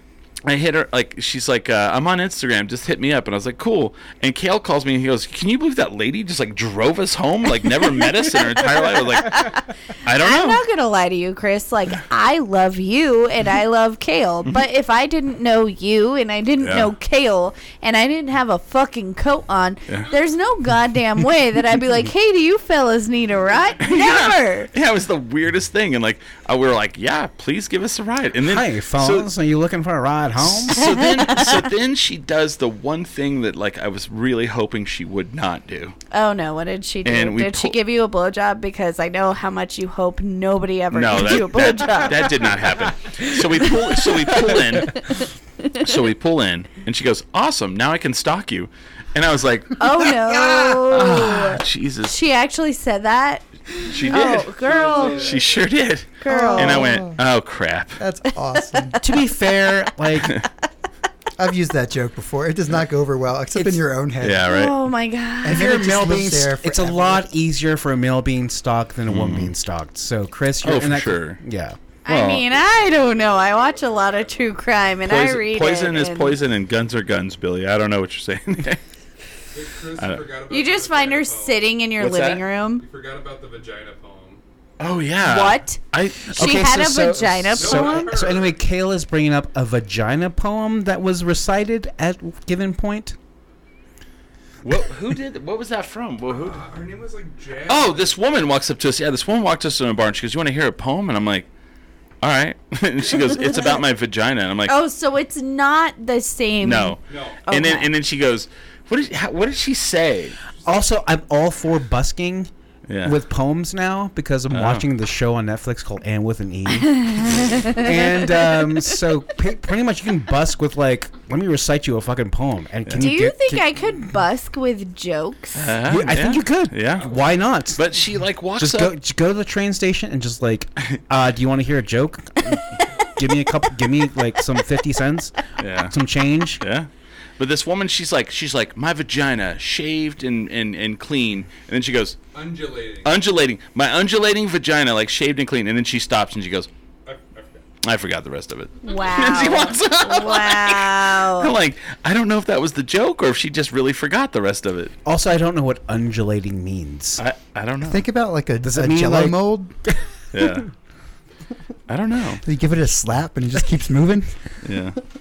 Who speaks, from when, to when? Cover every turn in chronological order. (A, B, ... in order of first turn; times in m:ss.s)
0:00.4-0:10.6 A
0:08.0-0:09.6 B
0:10.2-0:24.7 B
0:16.6-0:16.9 A
0:23.8-0:29.3 A
0:28.4-0:30.8 C
0:30.4-0:36.0 A
0:30.8-0:31.6 B
0:36.1-0:42.6 B
0:37.0-0:37.7 A
0:40.9-0:45.0 A
0:44.5-0:45.9 B
0:45.8-0:52.1 A
0:49.8-0:55.4 B
0:53.9-0:58.0 A
0:54.4-0:55.7 D
0:56.2-0:57.0 B
0:56.2-0:57.2 E
0:58.0-0:59.0 E
0:59.0-1:00.4 C
1:01.4-1:04.5 E
1:03.6-1:03.8 C
1:04.2-1:04.7 A
1:04.5-1:05.8 B
1:05.4-1:07.3 E
1:05.4-1:11.8 C
1:09.1-1:09.5 A
1:10.6-1:11.4 A
1:12.0-1:16.4 B
1:12.1-1:12.4 A
1:12.6-1:14.5 D
1:15.0-1:18.8 A
1:19.5-1:21.7 D
1:20.0-1:20.2 A
1:20.5-1:22.8 B
1:22.0-1:22.4 A
1:22.8-1:24.4 D
1:24.8-1:26.2 A
1:25.2-1:28.1 B
1:26.3-1:33.2 C
1:27.5-1:28.6 D
1:34.6-1:36.7 A
1:36.3-1:38.2 D
1:37.6-1:41.5 A
1:42.2-1:44.8 A
1:43.4-1:43.7 B
1:44.7-1:47.9 B
1:46.6-1:50.4 A
1:47.1-1:47.5 D
1:50.6-1:52.5 C
1:52.9-1:53.2 A
1:53.0-2:03.7 C
1:54.5-1:54.8 A
1:56.7-1:58.8 B
2:03.0-2:05.8 B
2:05.5-2:07.2 A
2:05.8-2:07.8 C
2:07.7-2:08.9 A
2:08.6-2:16.6 C
2:15.6-2:15.9 A
2:16.6-2:22.2 A
2:22.3-2:23.2 D
2:23.0-2:26.7 A
2:27.0-2:27.6 D
2:27.8-2:34.9 A
2:28.8-2:31.5 B
2:35.0-2:37.2 C
2:37.2-2:38.0 A
2:37.8-2:39.7 E
2:38.6-2:40.6 C
2:40.3-2:40.7 A
2:41.9-2:42.4 A
2:42.4-2:44.4 E
2:44.6-2:45.0 A